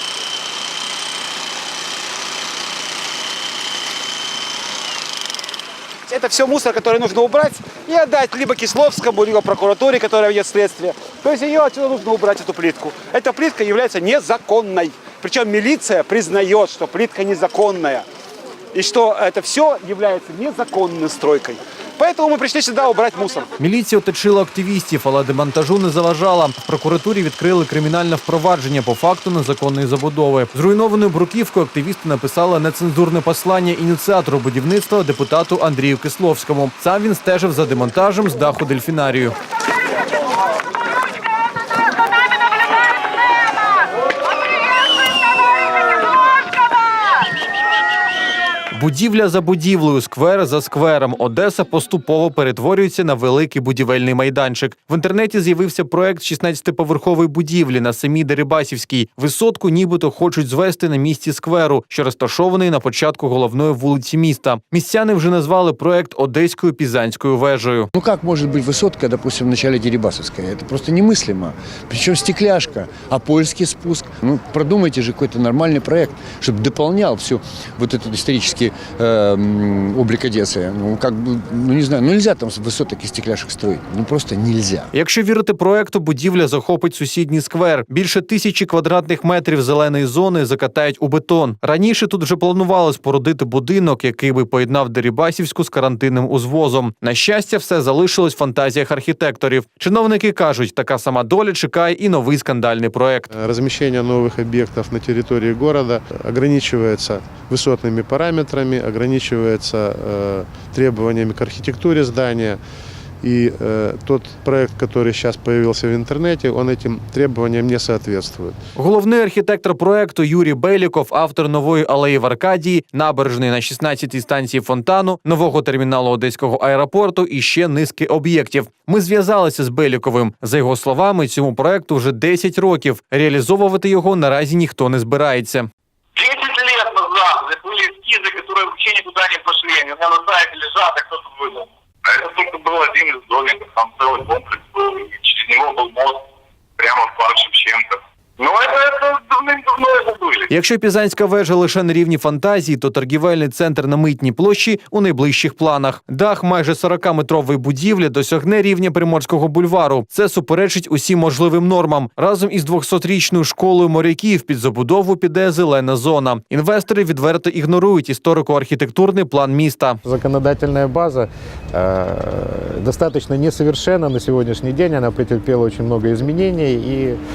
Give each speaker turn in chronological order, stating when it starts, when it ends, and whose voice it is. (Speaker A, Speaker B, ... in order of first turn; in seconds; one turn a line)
Speaker A: 6.1-18.1
Speaker A: 18.7-23.5
Speaker B: 23.6-39.3
Speaker B: 48.7-67.9
Speaker C: 67.9-84.9
Speaker B: 84.9-103.3
Speaker D: 103.4-112.6
Speaker D: 113.2-118.5
Speaker B: 118.8-135.7
Speaker E: 136.2-146.2
Speaker E: 146.8-150.5
Speaker B: 150.5-170.0
Speaker F: 170.0-177.2